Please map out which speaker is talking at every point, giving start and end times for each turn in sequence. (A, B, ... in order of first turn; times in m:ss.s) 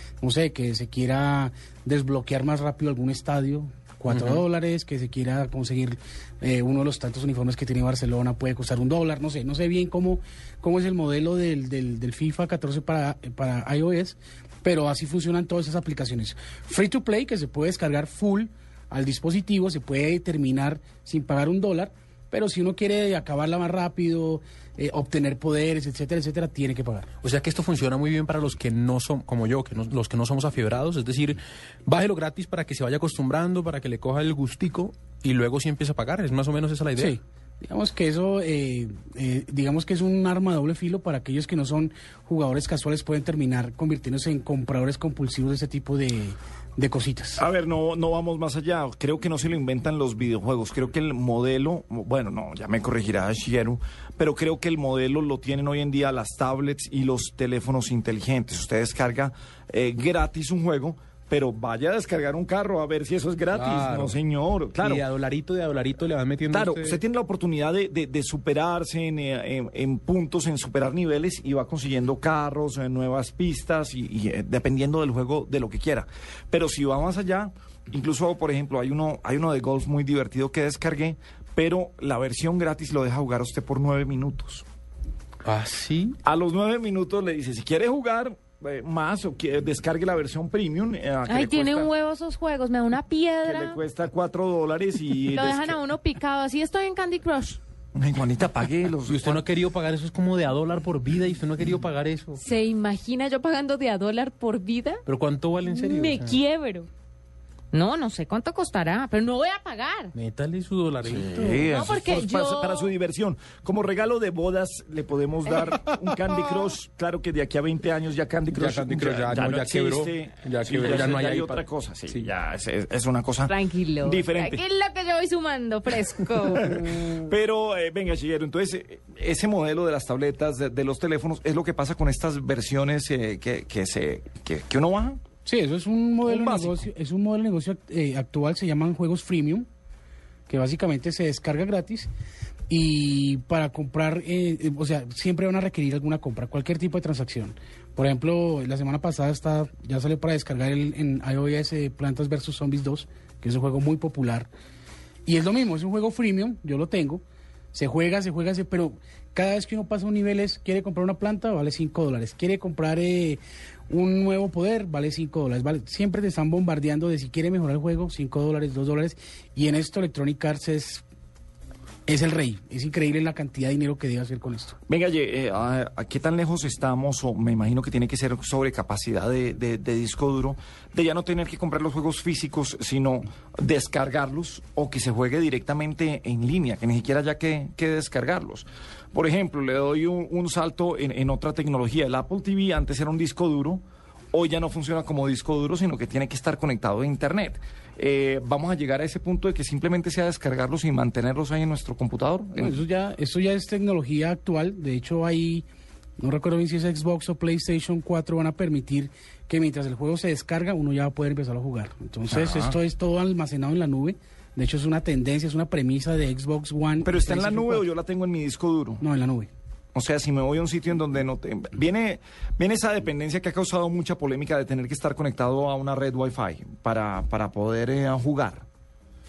0:00.2-0:27.1 A
0:04.1-0:04.4 B
0:27.2-0:37.2 B
0:37.0-0:47.4 A
0:47.4-1:05.0 C
1:03.5-1:04.2 B
1:04.8-1:07.0 B
1:06.5-1:24.6 C
1:25.4-1:26.2 B
1:26.2-1:31.9 C
1:31.3-1:33.8 D
1:33.4-1:35.8 C
1:35.3-1:37.6 D
1:38.0-1:39.4 C
1:39.1-1:42.4 B
1:42.4-1:45.0 D
1:45.1-1:46.4 B
1:45.7-1:46.9 D
1:47.7-1:50.1 D
1:50.1-1:51.7 B
1:51.1-2:04.6 C
1:51.7-1:52.9 D
1:58.5-2:02.3 B
2:03.5-2:07.2 D
2:06.4-2:15.2 C
2:15.4-2:19.7 A
2:16.2-2:16.9 C
2:20.5-2:22.1 A
2:22.7-2:34.5 A
2:35.3-2:37.2 A
2:37.7-2:51.0 A
2:52.1-2:54.8 A
2:54.9-3:22.8 C
3:22.6-3:25.7 A
3:26.2-3:37.9 A
3:32.3-3:32.8 C
3:37.0-3:39.0 C
3:39.0-3:39.5 A
3:40.0-3:48.6 C